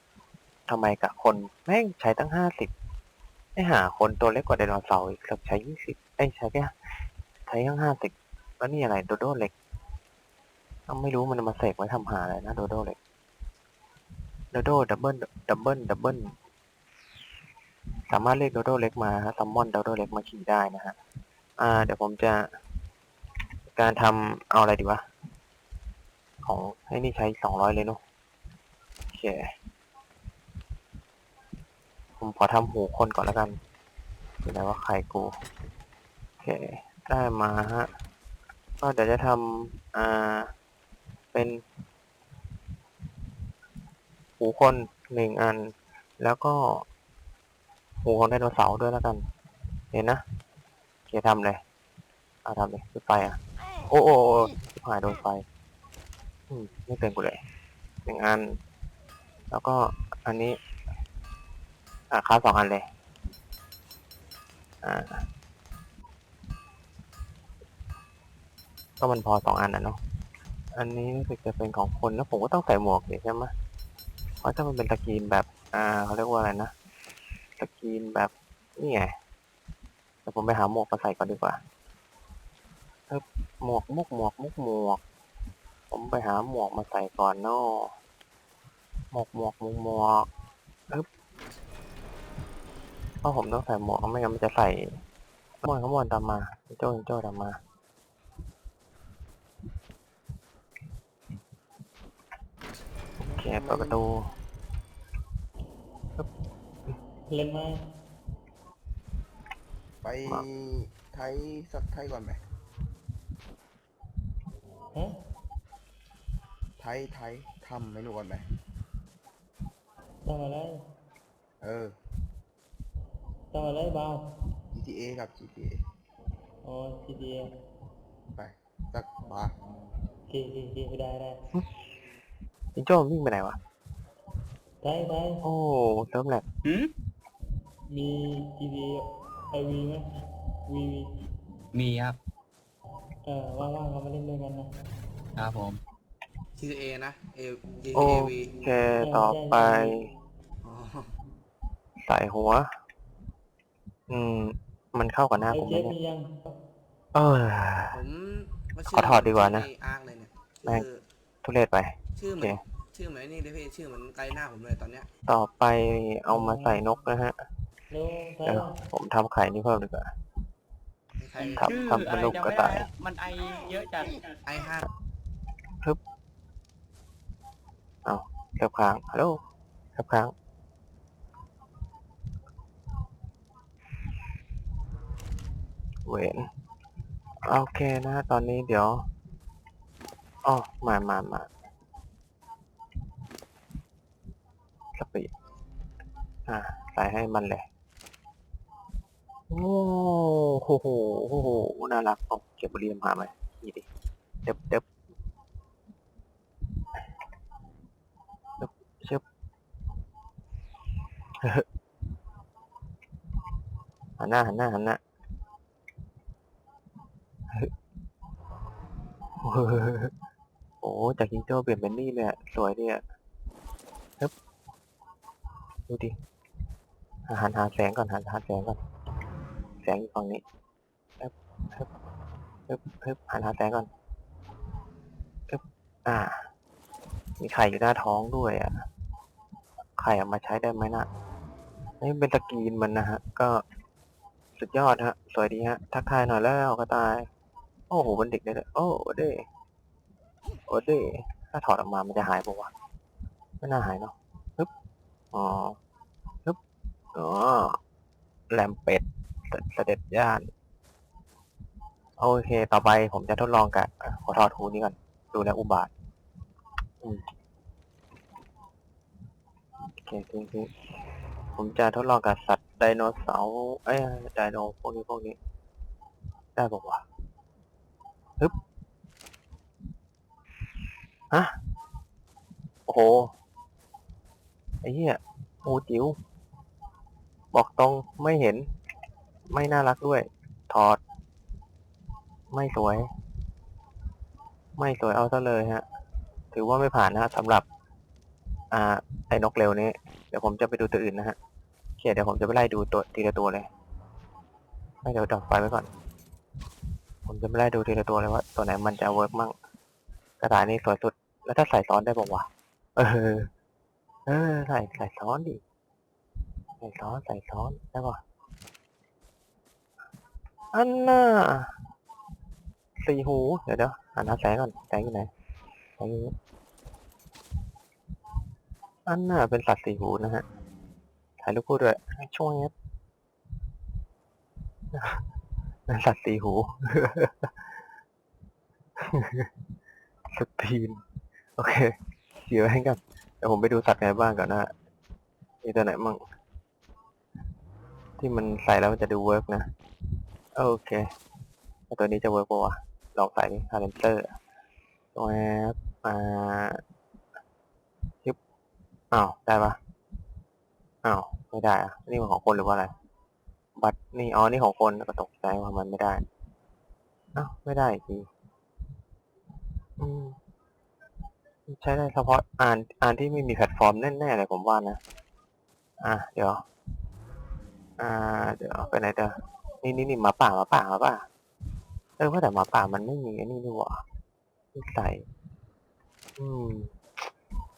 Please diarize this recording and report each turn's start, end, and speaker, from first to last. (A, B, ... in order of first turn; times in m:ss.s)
0:00.7-0:02.7 A
0:03.6-0:06.7 A
0:07.5-0:09.5 A
0:10.9-0:13.0 A
0:14.5-0:16.3 A
0:18.1-0:21.0 A
0:21.6-0:22.4 A
0:23.7-0:25.0 A
0:26.4-0:28.0 A
0:29.1-0:29.5 A
0:32.2-0:33.6 A
0:34.4-0:35.3 A
0:36.4-0:37.9 A
0:38.8-0:40.5 A
0:41.3-0:41.6 A
0:44.4-0:46.8 A
0:48.0-0:49.2 A
0:49.9-0:50.2 A
0:51.1-0:51.6 A
0:52.4-0:53.4 A
0:53.9-0:55.4 A
0:56.5-0:57.4 A
0:58.0-0:58.6 A
0:59.5-1:00.6 A
1:02.1-1:02.8 A
1:04.8-1:05.2 A
1:09.0-1:10.0 A
1:10.7-1:13.5 A
1:14.4-1:16.7 A
1:17.6-1:19.1 A
1:20.2-1:21.6 A
1:23.1-1:25.0 A
1:25.9-1:27.9 A
1:29.1-1:30.3 A
1:33.2-1:35.0 A
1:35.6-1:37.6 A
1:43.2-1:44.2 A
1:43.3-1:44.0 B
1:47.3-1:47.8 C
1:50.0-1:52.4 B
1:56.8-1:58.4 B
2:00.2-2:00.7 C
2:01.6-2:02.0 B
2:03.5-2:04.2 C
2:04.7-2:05.8 B
2:06.6-2:07.5 C
2:08.4-2:09.5 B
2:10.3-2:11.4 C
2:12.8-2:13.6 A
2:14.8-2:15.4 C
2:15.4-2:16.4 A
2:16.6-2:16.9 D
2:17.9-2:20.0 C
2:20.7-2:21.1 C
2:21.7-2:22.2 D
2:23.2-2:24.7 C
2:25.4-2:25.8 D
2:26.6-2:28.6 E
2:27.9-2:30.1 A
2:29.0-2:30.1 C
2:30.6-2:31.1 E
2:32.0-2:32.7 A
2:34.1-2:36.0 A
2:35.5-2:36.3 C
2:37.1-2:37.9 A
2:37.9-2:41.0 E
2:38.9-2:39.7 A
2:41.4-2:42.6 A
2:42.2-2:45.1 E
2:45.3-2:47.3 A
2:46.3-2:46.8 C
2:47.9-2:48.7 C
2:48.4-2:50.1 A
2:51.2-2:51.7 E
2:51.4-2:52.8 A
2:51.6-2:54.4 D
2:54.4-2:54.9 E
2:58.0-2:59.4 A
3:00.0-3:00.3 A
3:06.0-3:06.4 A
3:07.4-3:09.0 A
3:10.4-3:11.5 A
3:15.0-3:15.3 A
3:16.5-3:17.7 A
3:19.5-3:23.8 A
3:24.4-3:24.8 A
3:28.6-3:29.2 A
3:34.2-3:35.0 A
3:39.4-3:40.1 A
3:40.8-3:43.0 A
3:45.9-3:46.1 A
3:47.3-3:48.8 A
3:49.8-3:50.4 A
3:51.2-3:51.9 A
3:52.7-3:53.9 A
3:55.5-3:56.4 A
3:57.4-3:58.7 A
4:00.0-4:01.1 A
4:02.0-4:03.6 A
4:04.6-4:07.3 A
4:07.9-4:09.4 A
4:10.7-4:12.7 A
4:13.6-4:14.7 A
4:15.3-4:15.8 A
4:17.1-4:17.8 A
4:18.5-4:20.5 A
4:22.2-4:25.9 A
4:30.0-4:30.7 A
4:31.6-4:35.4 A
4:36.6-4:37.0 A
4:42.9-4:43.3 A
4:44.8-4:46.2 A
4:47.5-4:48.7 A
4:49.5-4:51.0 A
4:52.5-4:53.1 A
4:54.8-4:55.8 A
4:56.5-4:57.6 A
4:58.7-5:01.4 A
5:02.0-5:03.7 A
5:05.0-5:05.9 A
5:07.2-5:09.5 A
5:10.4-5:13.5 A
5:14.3-5:15.6 A
5:16.8-5:18.2 A
5:20.7-5:21.7 A
5:23.0-5:25.3 A
5:26.0-5:26.3 A
5:29.1-5:30.4 A
5:31.4-5:32.7 A
5:34.9-5:35.2 A
5:35.9-5:37.5 A
5:39.0-5:39.5 A
5:40.3-5:41.0 A
5:41.6-5:44.7 A
5:45.6-5:46.2 A
5:48.2-5:49.7 A
5:50.6-5:51.0 A
5:51.9-5:54.3 A
5:55.1-5:56.8 A
5:59.1-5:59.8 A
6:01.0-6:02.9 A
6:03.8-6:06.2 A
6:07.4-6:08.3 A
6:10.0-6:10.4 A
6:11.7-6:15.0 A
6:16.0-6:16.6 A
6:18.0-6:21.2 A
6:22.2-6:24.0 A
6:24.7-6:25.2 A
6:26.4-6:26.9 A